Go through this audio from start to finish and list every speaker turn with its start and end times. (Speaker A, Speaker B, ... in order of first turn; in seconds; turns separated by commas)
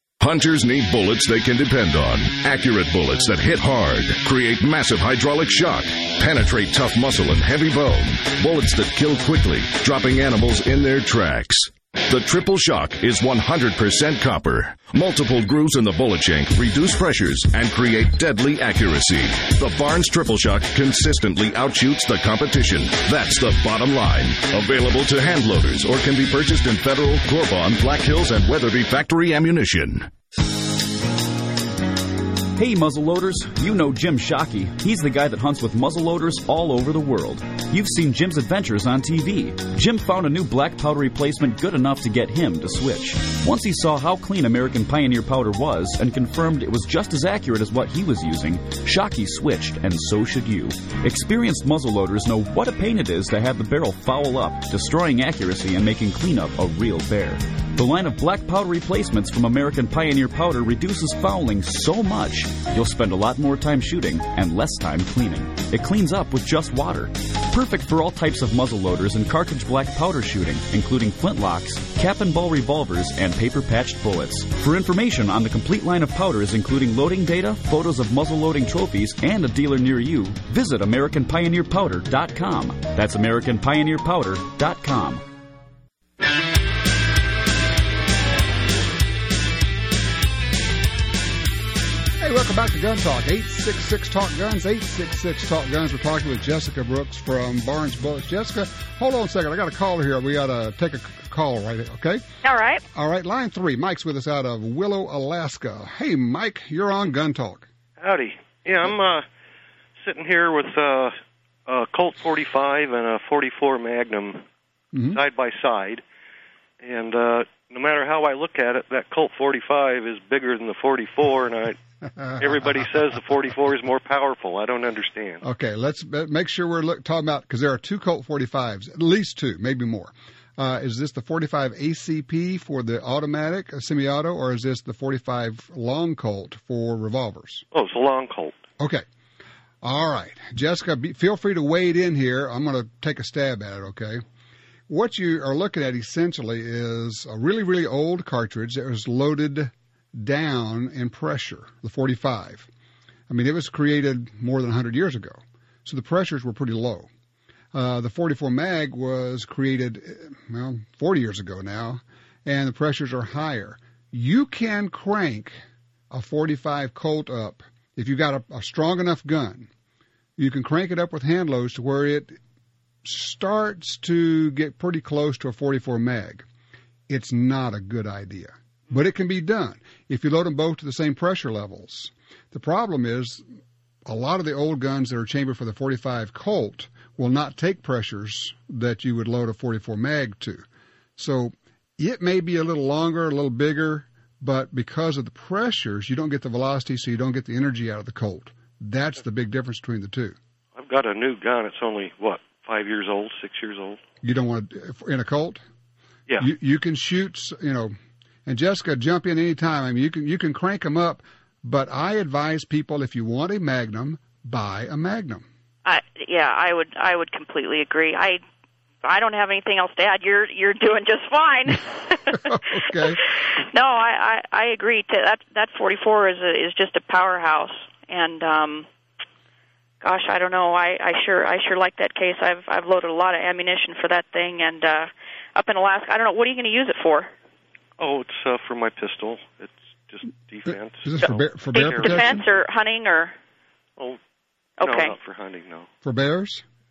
Speaker A: 0.2-30.1, Speaker B: 32.6-85.2, Speaker C: 92.2-102.2, Speaker D: 102.4-102.8, Speaker C: 102.9-107.7, Speaker E: 108.0-109.2, Speaker E: 110.0-111.1, Speaker E: 111.7-114.4, Speaker C: 114.9-115.2, Speaker E: 115.1-116.0, Speaker E: 116.8-121.8, Speaker C: 122.2-122.8, Speaker E: 122.4-125.4, Speaker C: 125.4-137.6, Speaker E: 137.7-138.6, Speaker C: 139.8-144.2, Speaker C: 144.9-152.7, Speaker C: 153.3-157.1, Speaker C: 157.7-165.6, Speaker C: 166.1-169.7, Speaker C: 170.4-172.4, Speaker C: 173.1-176.4, Speaker C: 177.1-183.4, Speaker C: 184.1-190.6, Speaker C: 191.2-200.3, Speaker E: 200.8-204.0, Speaker C: 204.2-205.6, Speaker C: 206.4-207.9, Speaker C: 208.5-215.4, Speaker D: 215.8-218.4, Speaker D: 219.0-222.4, Speaker C: 222.3-223.2, Speaker D: 223.1-228.9, Speaker D: 230.0-237.3, Speaker E: 238.0-242.5, Speaker C: 241.0-242.4, Speaker D: 241.2-243.3, Speaker D: 244.8-245.2, Speaker E: 244.8-245.9, Speaker C: 246.0-246.6